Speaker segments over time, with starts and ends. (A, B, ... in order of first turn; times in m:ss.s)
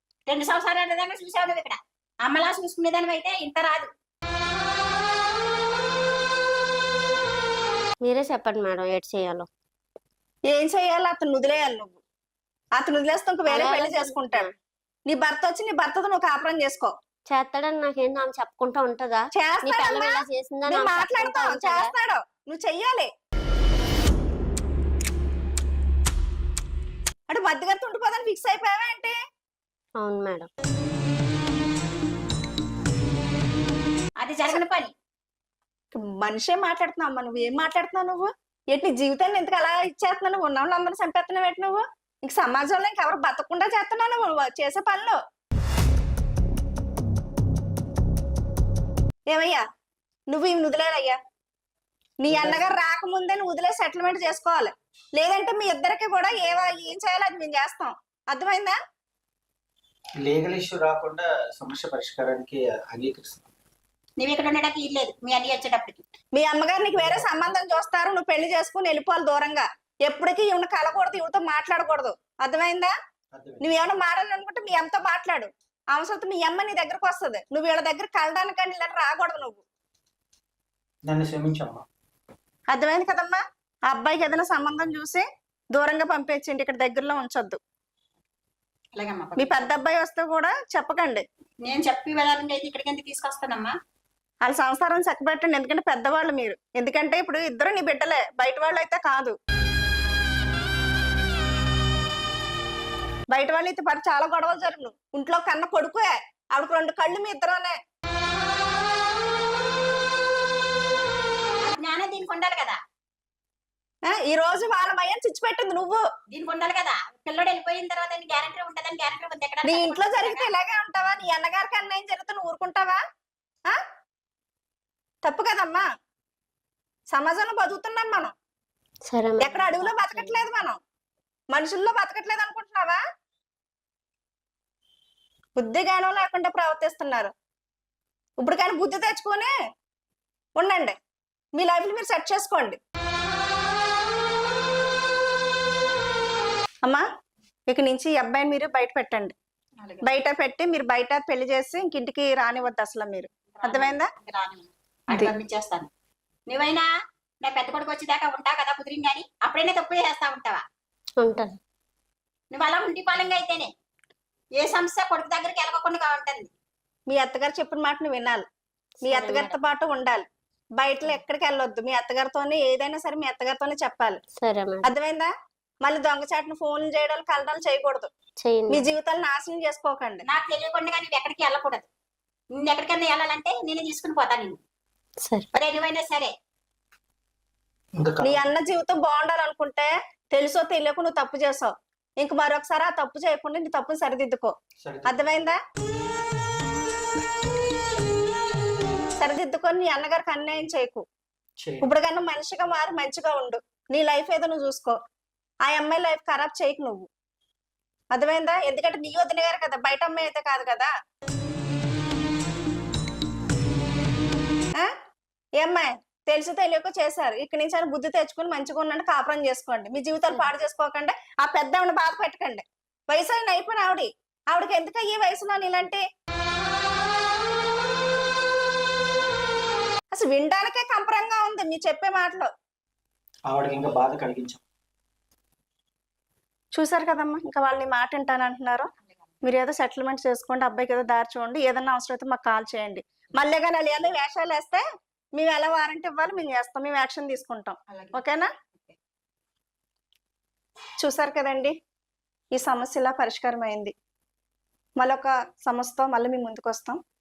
0:00.3-0:03.9 A
0:08.0-0:09.5 B
0:10.5-0:12.0 C
0:12.8-0:14.5 C
0:13.5-0:14.5 B
0:15.1-0:16.9 C
0:17.3-0:21.9 B
0:19.4-0:23.1 C
0:27.3-0:29.2 C
0:30.0-0:30.5 B
0:34.2-0:34.9 A
0:35.9-0:45.2 C
0:49.3-0:49.6 C
0:50.3-0:51.2 C
0:52.2-0:58.8 C
0:52.3-0:52.7 D
1:00.2-1:03.5 D
1:04.2-1:06.0 A
1:06.3-1:12.9 C
1:07.0-1:07.3 D
1:13.3-1:13.6 D
1:13.6-1:19.6 C
1:21.0-1:21.8 D
1:22.7-1:27.6 C
1:29.0-1:29.7 A
1:29.4-1:31.2 C
1:31.7-1:33.7 A
1:34.4-1:39.4 C
1:43.3-1:47.8 C
1:51.6-1:52.8 A
1:54.1-1:56.0 C
1:56.3-2:00.5 A
1:59.6-2:03.0 C
2:05.2-2:05.9 C
2:07.1-2:08.3 C
2:09.1-2:10.5 B
2:09.4-2:10.8 C
2:11.5-2:13.0 C
2:15.6-2:17.3 C
2:18.4-2:19.5 C
2:20.6-2:21.0 C
2:21.6-2:22.8 C
2:27.7-2:29.4 C
2:30.0-2:34.1 C
2:33.6-2:35.9 A
2:36.5-2:36.9 A
2:37.4-2:40.6 A
2:41.2-2:41.6 B
2:42.5-2:43.7 A
2:44.6-2:46.5 A
2:47.1-2:48.4 C
2:49.0-2:49.6 B
2:49.1-2:50.3 C
2:50.8-2:54.2 C
2:54.4-2:54.9 B
2:54.8-2:55.3 C
2:55.8-2:58.1 C
2:58.4-2:58.9 B
2:58.7-3:00.2 C
3:00.2-3:01.9 A
3:02.6-3:04.6 A
3:05.5-3:06.3 A
3:08.0-3:08.4 D
3:08.2-3:14.6 C
3:14.8-3:15.1 D
3:15.1-3:15.6 C
3:19.2-3:21.0 C
3:21.6-3:21.9 D
3:21.8-3:25.0 C
3:25.7-3:27.1 C
3:28.1-3:30.9 C
3:35.6-3:46.0 C
3:50.1-3:52.5 C
3:53.5-3:54.6 D
3:56.8-3:58.9 C
3:59.4-4:04.8 C
4:05.4-4:08.5 C
4:07.9-4:08.2 A
4:11.0-4:11.8 C
4:12.5-4:13.9 C
4:15.0-4:17.0 C